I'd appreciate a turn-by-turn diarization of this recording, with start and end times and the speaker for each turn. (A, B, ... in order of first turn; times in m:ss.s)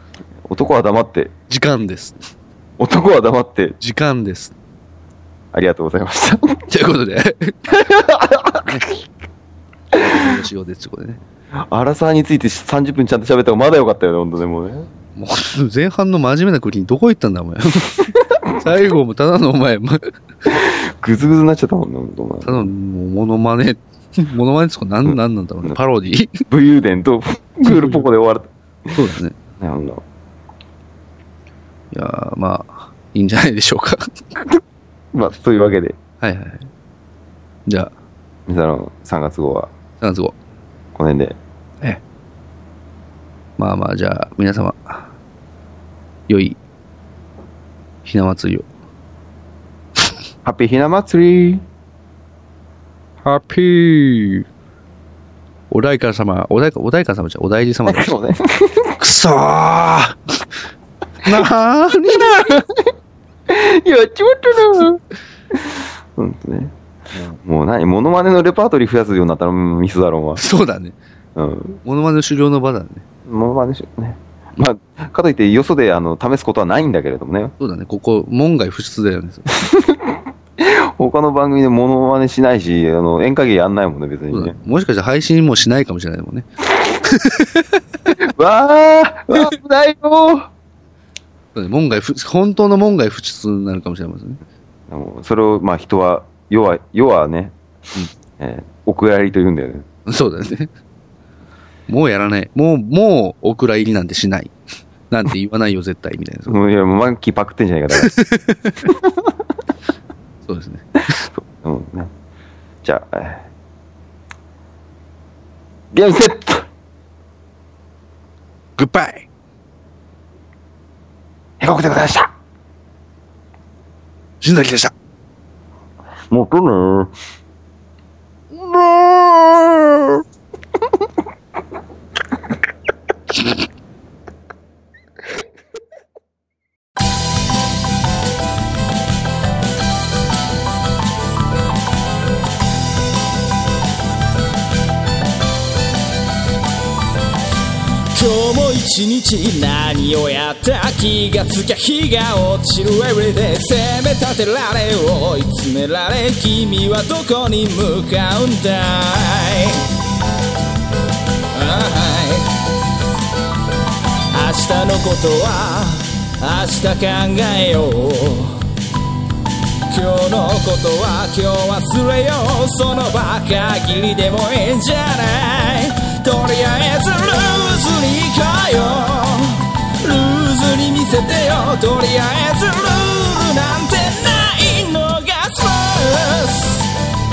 0:00.5-0:01.3 A
0:01.5-0:02.2 B
0:02.8-0:03.8 A
0:03.8-0:04.6 B
0:05.5-0:06.6 A
0:06.7-0:07.7 B
0:07.7-0:08.9 A
0:09.9-0:11.2 B
0:11.6-0:14.9 A
0:15.2-0:20.1 B
0:20.5-0:22.7 A
0:22.4-0:26.4 B
0:25.1-0:25.8 A
0:26.5-0:29.0 A
0:27.7-0:28.0 B
0:28.9-0:29.4 B
0:29.6-0:30.0 A
0:31.9-0:34.4 B
0:35.1-0:36.0 A
0:36.2-0:36.7 B
0:37.7-0:37.9 B
0:38.5-0:39.7 A
0:40.0-0:40.4 B
0:41.0-0:41.4 A
0:43.6-0:45.1 B
0:46.3-0:46.6 B
0:48.0-0:48.7 B
0:50.4-0:51.6 A
0:53.2-0:54.5 B
0:55.7-0:58.1 B
0:57.9-0:59.0 A
0:59.0-1:00.2 B
1:01.2-1:02.6 B
1:02.1-1:02.9 A
1:03.5-1:06.7 A
1:07.4-1:10.4 A
1:10.4-1:11.0 B
1:11.4-1:11.8 A
1:11.8-1:13.0 B
1:13.3-1:17.5 A
1:17.6-1:19.5 B
1:19.5-1:24.6 A
1:24.3-1:26.5 B
1:27.0-1:27.8 B
1:28.1-1:30.5 A
1:31.6-1:34.4 B
1:34.9-1:37.6 A
1:38.4-1:39.9 A
1:40.1-1:40.7 B
1:41.9-1:44.5 B
1:45.1-1:46.6 B
1:46.5-1:48.2 A
1:47.9-1:48.9 B
1:48.8-1:49.3 A
1:50.5-1:51.2 B
1:51.1-1:52.1 A
1:52.8-1:53.5 A
1:55.9-1:56.7 A
1:58.8-1:59.3 B
2:01.6-2:02.3 A
2:04.4-2:04.9 B
2:06.3-2:07.1 A
2:08.6-2:09.8 A
2:28.1-2:39.9 C
2:41.5-2:42.5 C
2:44.3-2:48.7 C
2:49.9-3:06.9 C